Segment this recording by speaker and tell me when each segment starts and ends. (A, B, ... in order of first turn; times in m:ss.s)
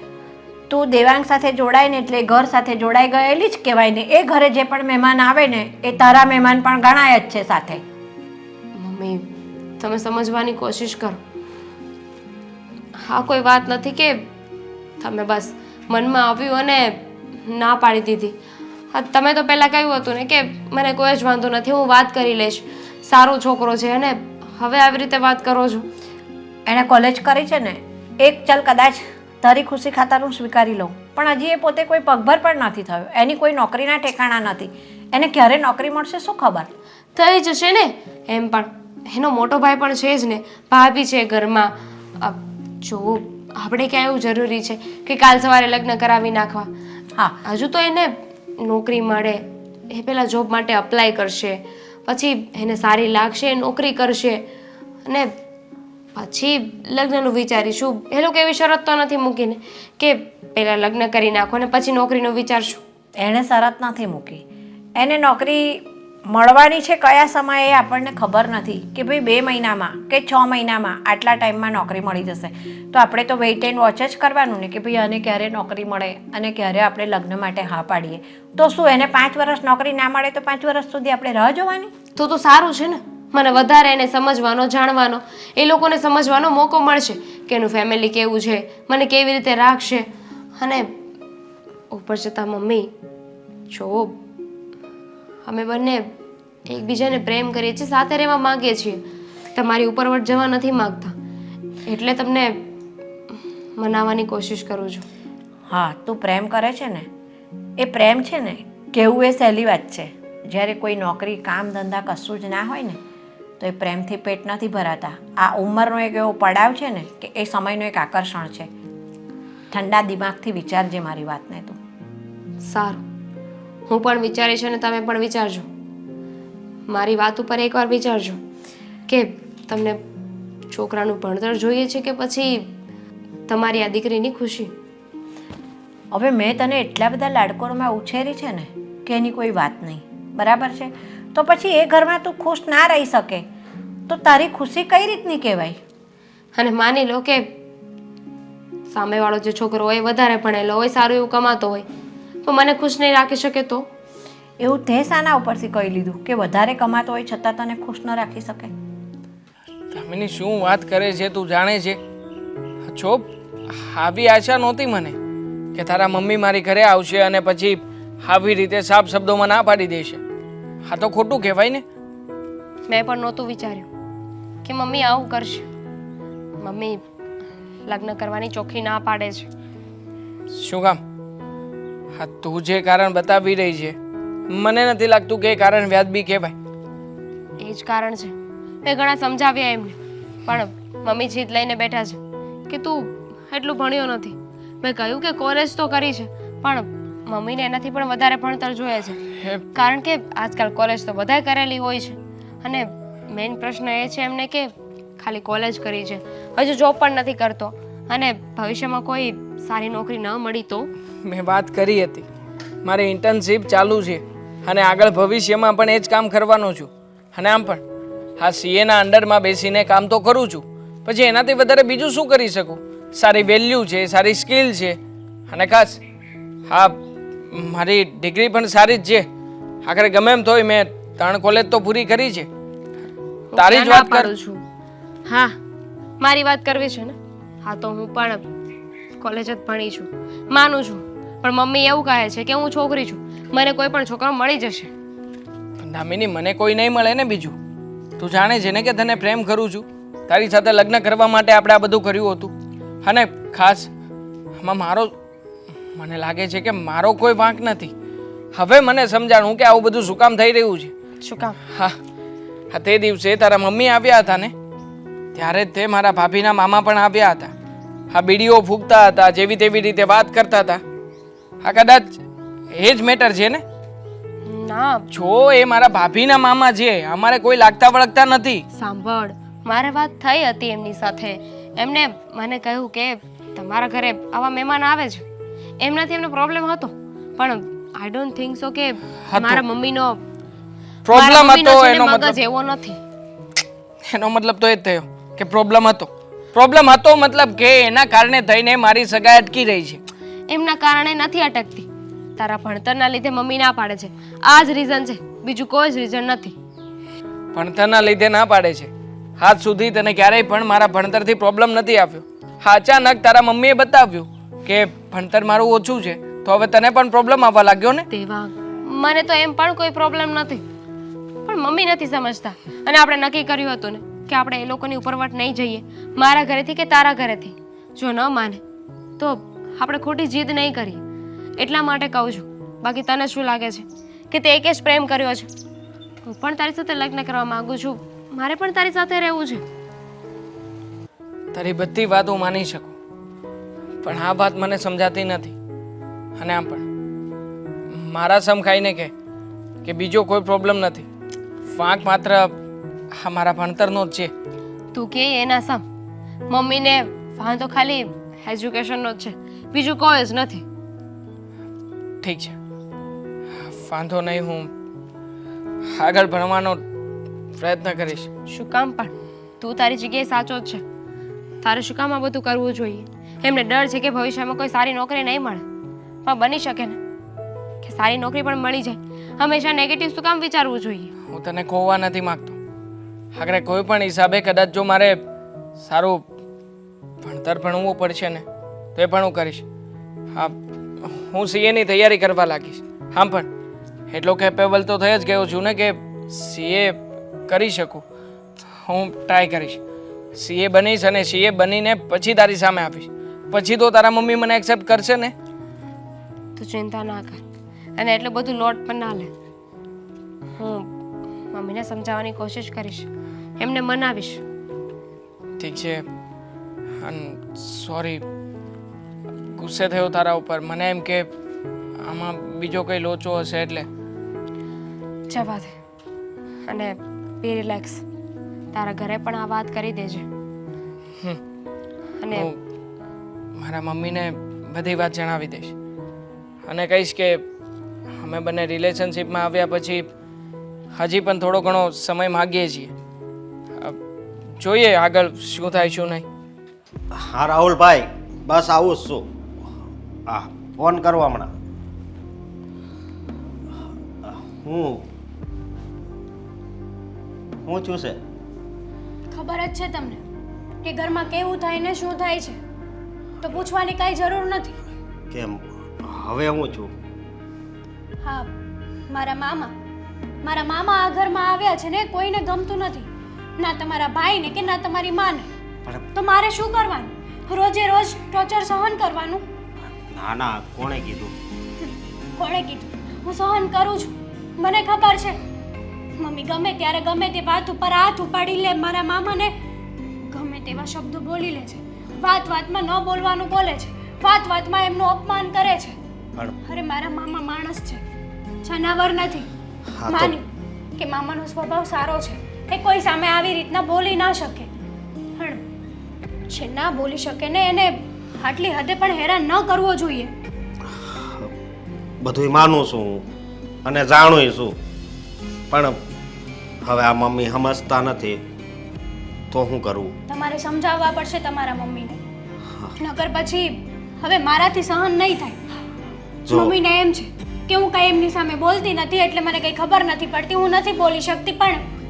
0:00.7-0:07.8 A
0:08.7-0:09.2 B
0:09.8-0:11.2 B
0:13.0-0:14.2 B
0:15.0-0:18.4 B
0:18.9-0:25.8 B
0:26.6-0:36.7 A
0:37.2-0:46.7 B
0:47.4-0:54.4 B
0:55.0-0:55.3 B
0:56.2-1:02.8 B
1:03.2-1:04.4 A
1:05.0-1:21.9 A
1:22.2-1:30.1 B
1:30.6-1:30.9 B
1:31.9-1:32.9 B
1:33.7-1:34.2 B
1:35.4-1:36.1 B
1:36.7-1:39.0 B
1:39.5-1:41.1 B
1:41.9-1:42.6 B
1:43.8-1:45.0 B
1:45.7-1:47.1 A
1:47.8-1:53.0 A
1:53.6-1:58.7 A
1:59.7-2:01.8 A
2:02.6-2:03.0 B
2:03.9-2:05.6 B
2:06.9-2:08.4 B
2:09.1-2:10.0 B
2:10.7-2:12.7 B
2:13.5-2:14.7 B
2:16.1-2:23.4 A
2:24.1-2:25.8 A
2:26.6-2:27.5 B
2:28.9-2:31.8 B
2:32.4-2:33.9 B
2:34.6-2:38.7 A
2:39.9-2:42.0 C
2:42.8-2:45.2 C
2:45.7-2:50.2 C
2:50.8-2:51.8 C
2:52.9-2:53.9 B
2:54.6-2:55.7 B
2:56.6-2:57.0 B
2:57.8-2:59.5 B
3:00.5-3:01.0 C
3:02.1-3:04.0 C
3:04.5-3:06.5 C
3:07.6-3:08.3 B
3:08.8-3:19.2 B
3:19.4-3:19.6 C
3:19.7-3:30.9 B
3:31.2-3:32.2 C
3:32.8-3:37.8 C
3:38.4-3:45.0 C
3:45.5-3:46.0 C
3:46.7-3:47.0 C
3:47.5-3:49.3 C
3:49.8-3:52.5 C
3:53.5-3:54.6 B
3:53.6-3:54.3 C
3:55.3-3:55.6 B
3:56.2-3:58.4 B
3:59.2-4:04.9 B
4:05.8-4:07.6 C
4:08.2-4:12.5 C
4:13.0-4:13.9 C
4:14.6-4:15.1 C
4:15.9-4:17.9 C
4:18.5-4:20.9 C
4:21.2-4:21.6 B
4:21.7-4:22.0 C
4:22.7-4:24.5 C
4:25.3-4:27.5 C
4:28.1-4:30.8 C
4:31.6-4:32.2 C
4:32.7-4:33.6 C
4:34.4-4:35.1 B
4:35.1-4:38.6 C
4:38.7-4:45.2 B
4:45.8-4:50.2 B
4:49.3-4:49.6 C
4:51.0-4:52.3 C
4:51.1-4:53.0 B
4:54.1-5:00.0 C
5:00.5-5:06.5 B
5:07.5-5:18.0 C
5:18.1-5:20.6 B
5:21.4-5:28.6 B
5:29.2-5:31.0 B
5:31.6-5:35.5 B
5:36.2-5:39.6 B
5:41.5-5:42.9 C
5:44.0-5:45.5 C
5:46.4-5:46.8 C
5:47.9-5:49.1 C
5:49.8-5:51.0 C
5:51.7-5:52.6 C
5:53.2-5:54.3 C
5:54.9-5:55.8 B
5:56.5-6:00.6 B
6:02.2-6:02.6 C
6:03.6-6:04.7 C
6:05.9-6:06.8 C
6:07.6-6:08.3 C
6:08.5-6:10.8 B
6:11.6-6:15.6 B
6:16.2-6:17.0 B
6:17.8-6:21.1 B
6:21.3-6:22.6 C
6:23.3-6:25.2 C
6:25.8-6:26.2 C
6:27.2-6:28.4 C
6:29.0-6:29.6 C
6:30.3-6:33.5 C
6:34.1-6:38.0 C
6:38.8-6:39.8 C
6:40.3-6:45.3 C
6:46.6-6:47.4 B
6:48.0-6:49.3 B
6:50.6-6:50.9 B
6:51.5-6:53.1 B
6:53.6-6:54.4 B
6:55.6-6:56.0 C
6:57.0-6:58.2 C
6:59.4-7:01.3 C
7:02.0-7:03.9 C
7:05.3-7:05.7 B
7:06.7-7:08.0 B
7:08.7-7:10.2 B
7:12.2-7:12.5 B
7:12.3-7:12.6 C
7:13.6-7:15.7 C
7:16.6-7:17.4 C
7:18.2-7:20.1 C
7:20.9-7:22.9 C
7:24.6-7:26.2 C
7:27.1-7:29.3 D
7:30.3-7:31.5 D
7:34.2-7:35.0 D
7:37.6-7:38.2 D
7:39.3-7:40.2 E
7:40.8-7:42.6 E
7:43.4-7:44.8 E
7:45.3-7:46.9 D
7:48.2-7:48.5 E
7:49.1-7:49.7 E
7:50.4-7:55.5 E
7:56.1-7:59.4 E
8:00.1-8:01.3 D
8:02.4-8:05.4 E
8:06.2-8:09.5 E
8:10.3-8:16.0 E
8:16.6-8:18.0 E
8:18.6-8:19.5 E
8:19.9-8:20.4 D
8:20.1-8:24.7 E
8:25.4-8:25.6 E
8:26.5-8:30.3 E
8:30.9-8:31.5 D
8:32.2-8:33.2 D
8:33.8-8:34.8 D
8:35.7-8:36.0 D
8:36.8-8:38.4 D
8:39.5-8:40.1 D
8:40.3-8:42.2 E
8:43.0-8:45.6 E
8:46.5-8:46.8 D
8:46.5-8:51.8 E